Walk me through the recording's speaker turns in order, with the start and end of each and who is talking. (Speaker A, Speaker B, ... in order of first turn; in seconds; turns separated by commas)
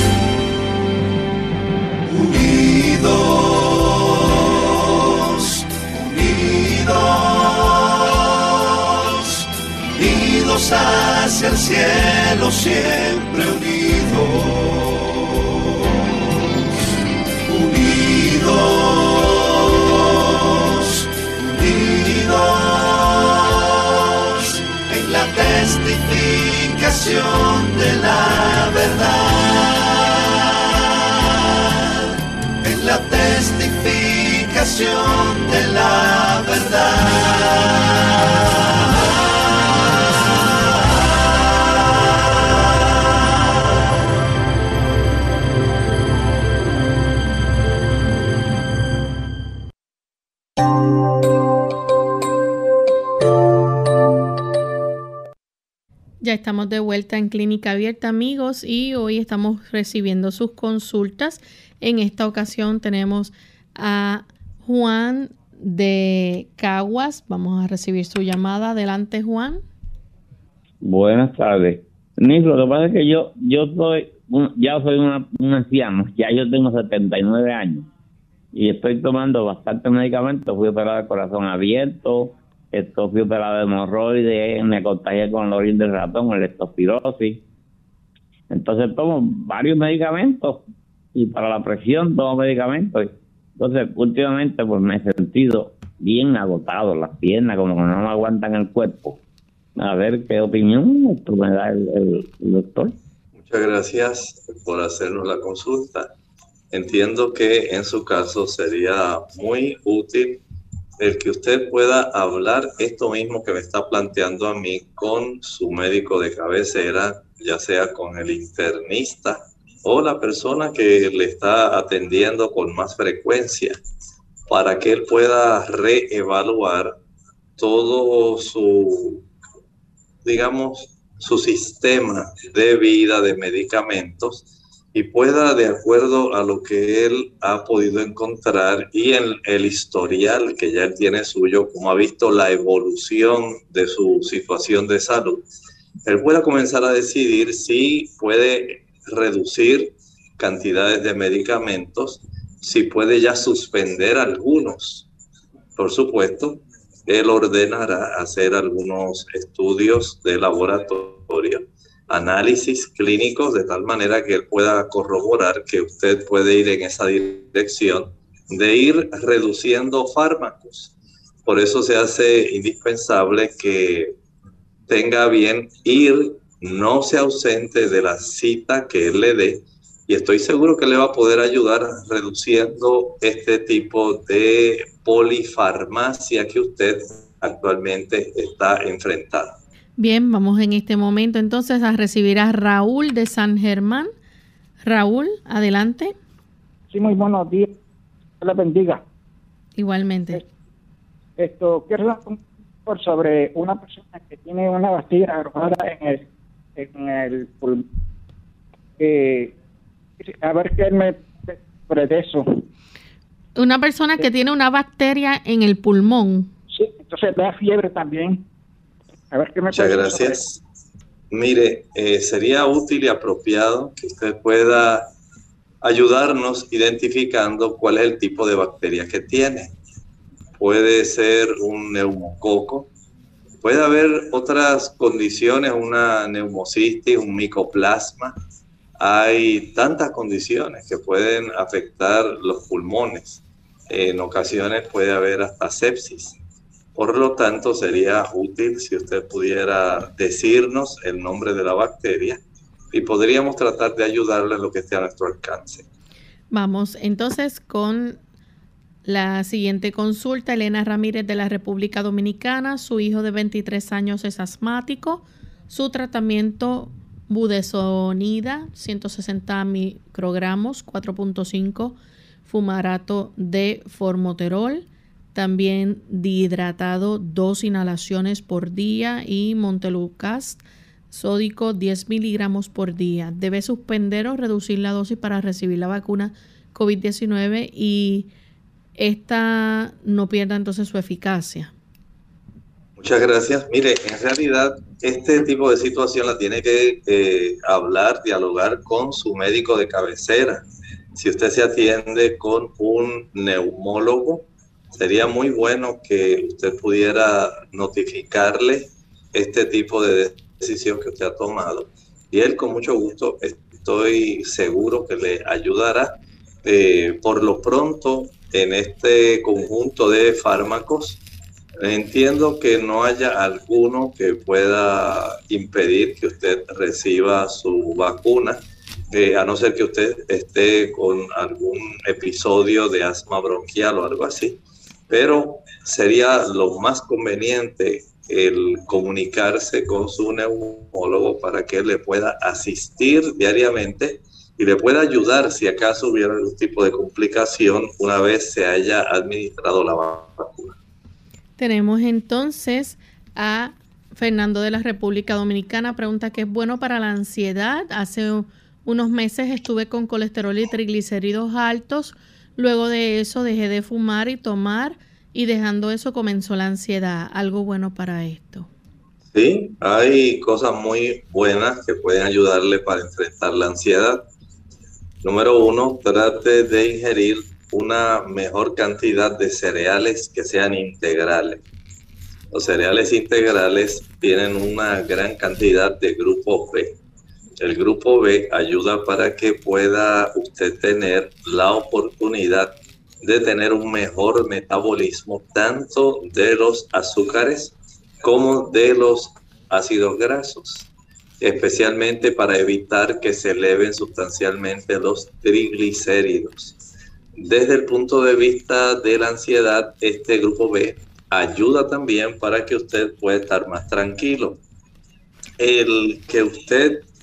Speaker A: 2.1-8.3, Speaker A: 8.9-9.4, Speaker A: 10.0-16.5, Speaker A: 17.5-30.3, Speaker A: 32.6-38.1, Speaker B: 56.2-69.6, Speaker C: 70.8-77.9, Speaker C: 78.5-87.4, Speaker C: 88.5-90.6, Speaker C: 91.2-99.2, Speaker C: 99.8-102.9, Speaker D: 103.4-106.1, Speaker D: 106.7-110.4, Speaker D: 111.0-123.8, Speaker D: 124.5-127.0, Speaker D: 127.6-129.2, Speaker D: 130.2-145.4, Speaker D: 146.1-155.1, Speaker D: 155.8-170.9, Speaker D: 171.4-174.2, Speaker D: 174.9-189.6, Speaker B: 190.0-194.1, Speaker B: 194.8-196.2, Speaker E: 196.9-197.7, Speaker E: 198.4-199.0, Speaker B: 199.8-200.4, Speaker E: 201.4-206.2, Speaker E: 206.8-207.8, Speaker E: 209.0-209.5, Speaker E: 210.2-212.6, Speaker B: 213.6-216.5, Speaker E: 216.7-218.4, Speaker E: 219.3-220.4, Speaker D: 219.7-220.6, Speaker D: 221.3-225.1, Speaker D: 225.8-229.7, Speaker D: 230.6-232.9, Speaker D: 233.6-238.4, Speaker D: 239.0-246.4, Speaker D: 246.9-252.4, Speaker D: 252.9-255.9, Speaker B: 256.5-258.2, Speaker B: 259.1-288.3, Speaker B: 289.0-291.7, Speaker D: 293.0-300.6, Speaker D: 301.1-321.2, Speaker D: 321.8-350.8, Speaker B: 351.6-368.7, Speaker D: 369.3-374.2, Speaker D: 375.2-381.6, Speaker D: 382.5-387.0, Speaker D: 387.6-400.9, Speaker D: 401.4-406.8, Speaker D: 407.4-414.6, Speaker D: 415.6-417.1